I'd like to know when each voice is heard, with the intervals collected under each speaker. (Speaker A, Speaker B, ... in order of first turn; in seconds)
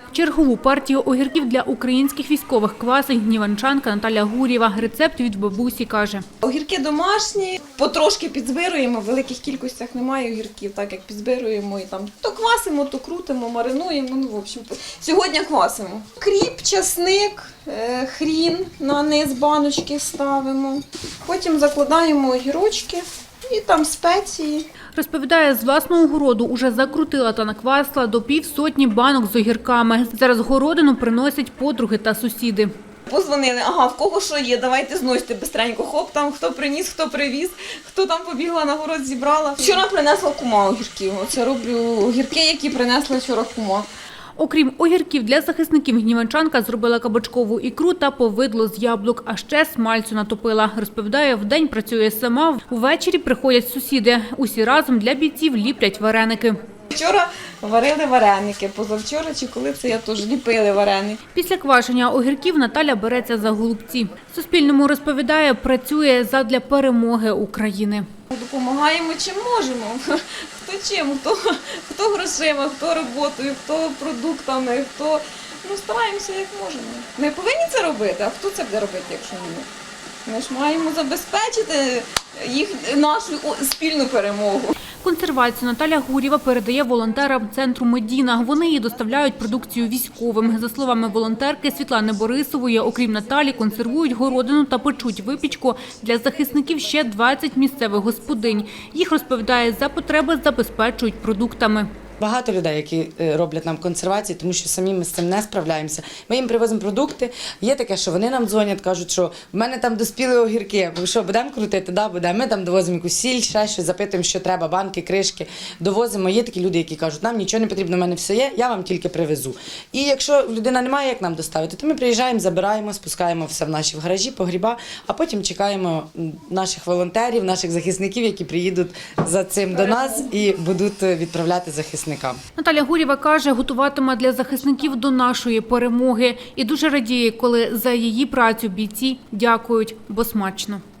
Speaker A: 0.1-6.2, 24.9-32.7, 44.4-56.6, 61.3-68.0, 85.0-101.9, 132.6-140.8
Speaker B: 6.4-24.6, 33.1-43.9, 56.9-61.2, 68.3-79.7, 80.2-84.8
Speaker C: 102.2-132.4